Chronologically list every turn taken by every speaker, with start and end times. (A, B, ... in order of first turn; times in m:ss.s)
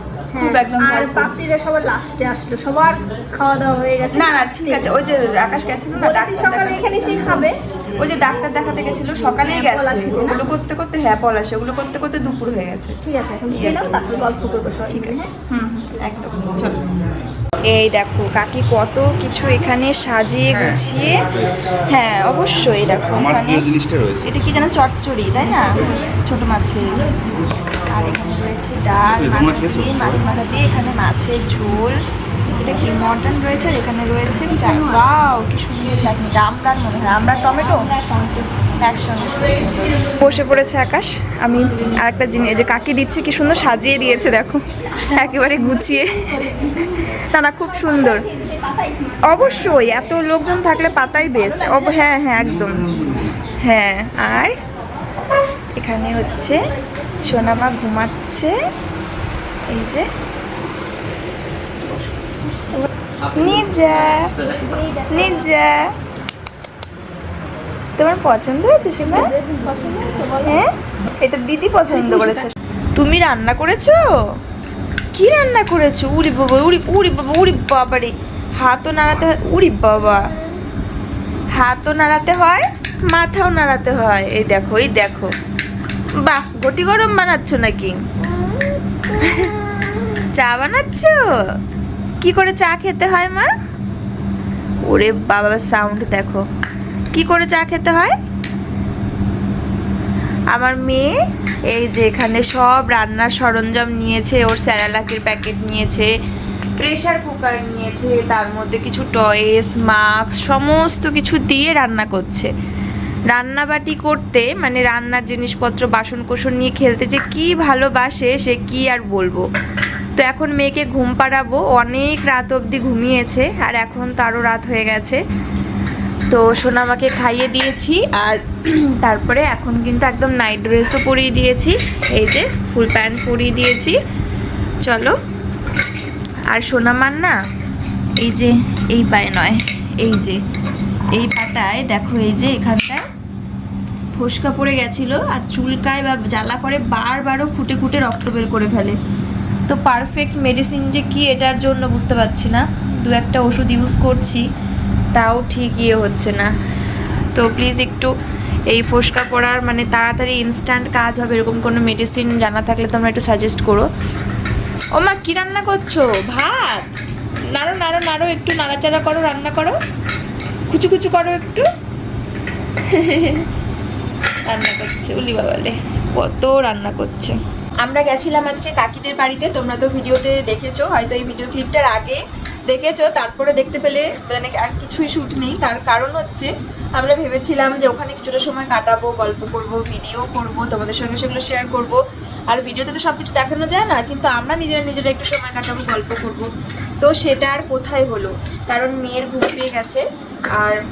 0:00.3-0:04.9 A
0:00.4-0:01.3 B
0:04.1-0:07.5 B
0:06.0-0:07.6 A
0:08.0-0:13.0 B
0:09.3-0:10.4 A
0:13.0-0:15.3 A
0:13.5-0:14.0 B
0:14.9-0:16.8 B
0:17.7-0:21.3 B
0:20.5-0:21.8 C
0:21.9-0:23.6 B
0:23.0-0:24.3 C
0:24.2-0:32.0 B
0:29.0-0:30.2 C
0:32.5-0:37.9 B
0:34.6-0:35.0 A
0:37.5-0:38.6 A
0:38.8-0:48.3 B
0:48.4-0:48.8 A
0:49.3-0:54.6 B
0:52.4-0:53.3 C
0:55.8-0:56.7 B
0:57.2-0:58.6 B
0:59.7-1:00.1 B
1:03.3-1:04.4 B
1:04.6-1:05.4 A
1:05.1-1:05.9 B
1:08.0-1:09.3 B
1:09.1-1:10.6 A
1:10.4-1:10.7 B
1:11.2-1:14.0 B
1:12.1-1:12.4 A
1:15.1-1:20.2 B
1:21.6-1:25.3 B
1:26.2-1:28.0 B
1:29.1-1:31.2 B
1:32.2-1:33.5 B
1:34.8-1:36.4 B
1:37.1-1:38.2 B
1:40.5-1:41.1 B
1:41.7-1:46.1 B
1:46.8-1:52.5 B
1:53.3-1:59.5 B
2:00.2-2:05.2 B
2:06.3-2:14.0 B
2:14.8-2:15.2 B
2:16.5-2:17.3 B
2:18.2-2:20.4 B
2:21.2-2:23.0 B
2:24.2-2:29.0 B
2:29.7-2:34.4 B
2:35.2-2:36.5 B
2:37.3-2:38.1 B
2:38.7-2:43.9 B
2:45.0-2:46.9 B
2:47.6-2:49.8 B
2:50.7-2:51.7 B
2:52.9-2:53.5 B
2:54.5-3:12.0 B
3:12.5-3:16.5 B
3:17.0-3:20.0 B